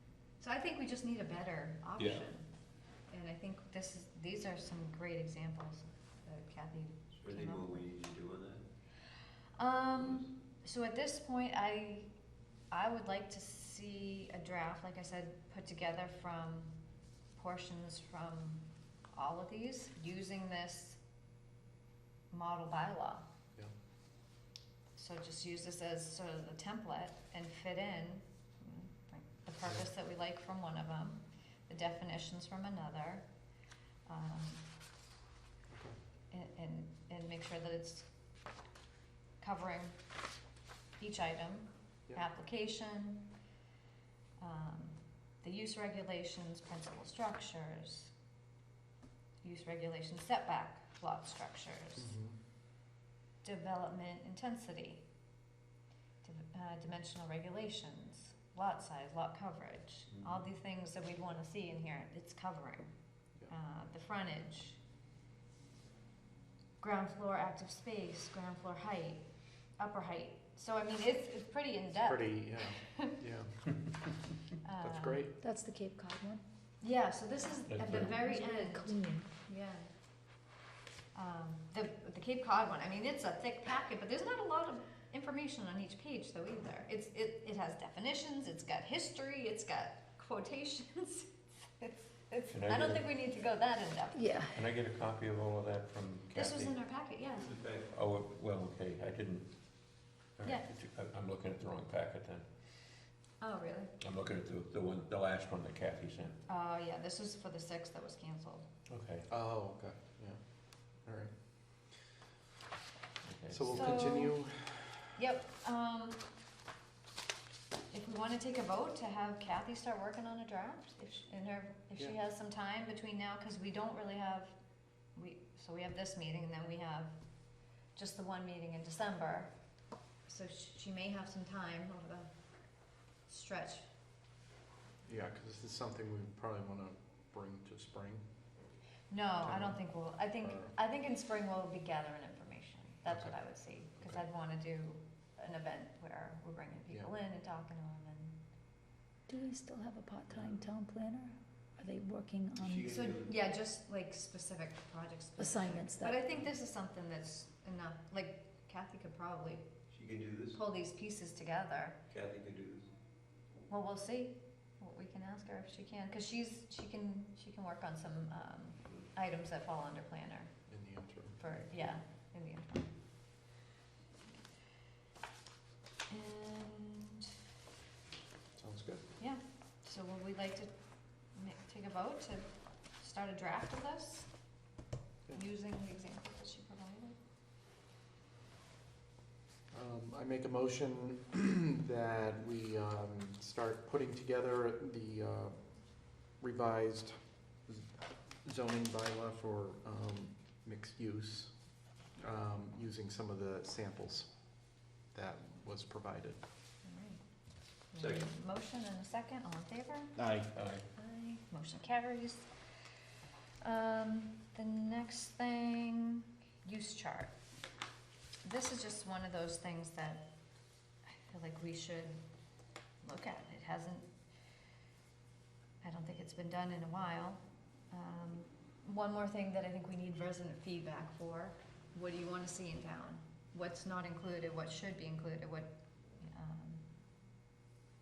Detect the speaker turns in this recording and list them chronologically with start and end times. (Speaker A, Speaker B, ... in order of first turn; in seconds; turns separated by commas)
Speaker A: 0.4-2.5, Speaker B: 2.0-2.2, Speaker A: 3.1-7.8, Speaker C: 7.1-8.6, Speaker A: 9.6-12.1, Speaker C: 9.9-10.3, Speaker A: 12.7-16.8, Speaker A: 17.3-21.0, Speaker A: 22.3-23.3, Speaker A: 24.9-33.3, Speaker A: 34.1-34.6, Speaker D: 35.7-36.0, Speaker A: 36.3-38.1, Speaker A: 39.4-40.0, Speaker A: 41.0-43.3, Speaker A: 44.4-48.1, Speaker A: 49.4-52.1, Speaker D: 52.0-52.4, Speaker A: 53.4-55.0, Speaker A: 56.2-62.9, Speaker A: 63.5-64.8, Speaker A: 66.8-69.2, Speaker A: 69.8-73.2, Speaker D: 71.9-73.6, Speaker A: 74.6-75.2, Speaker D: 74.8-75.3, Speaker E: 75.4-76.4, Speaker A: 76.8-79.9, Speaker B: 77.7-78.1, Speaker E: 78.0-79.3, Speaker A: 81.1-94.3, Speaker B: 92.5-93.0, Speaker E: 94.1-94.6, Speaker B: 94.5-96.8, Speaker A: 96.3-97.5, Speaker C: 97.4-97.9, Speaker B: 97.9-99.5, Speaker B: 100.4-102.4, Speaker A: 103.4-103.9, Speaker B: 104.0-106.4, Speaker A: 106.5-108.7, Speaker B: 108.9-109.3, Speaker D: 109.3-110.4, Speaker D: 111.0-111.3, Speaker B: 113.2-114.1, Speaker D: 113.5-115.1, Speaker A: 113.7-114.3, Speaker A: 115.2-116.2, Speaker A: 117.9-124.5, Speaker A: 125.1-127.1, Speaker A: 128.0-129.5, Speaker A: 130.2-132.3, Speaker A: 133.3-133.9, Speaker D: 135.1-138.2, Speaker A: 139.1-148.4, Speaker D: 139.4-139.8, Speaker D: 140.4-140.7, Speaker D: 143.1-143.3, Speaker E: 149.3-152.9, Speaker C: 152.6-153.3, Speaker A: 152.9-159.7, Speaker E: 155.4-156.2, Speaker C: 159.9-160.6, Speaker A: 160.5-162.0, Speaker C: 162.1-162.9, Speaker A: 163.7-170.5, Speaker D: 170.7-171.4, Speaker A: 171.4-172.9, Speaker A: 176.1-177.3, Speaker D: 178.6-179.0, Speaker A: 179.2-180.7, Speaker A: 181.3-184.3, Speaker A: 185.3-187.2, Speaker D: 189.7-195.6, Speaker D: 196.4-197.2, Speaker D: 197.7-197.9, Speaker D: 198.4-201.5, Speaker D: 202.2-204.3, Speaker D: 205.1-206.4, Speaker A: 206.8-207.2, Speaker A: 207.9-210.2, Speaker C: 208.0-208.3, Speaker D: 210.2-210.5, Speaker B: 210.5-210.8, Speaker A: 210.9-212.5, Speaker A: 213.6-217.3, Speaker A: 218.4-220.2, Speaker A: 221.1-222.2, Speaker A: 223.0-224.1, Speaker A: 225.8-236.8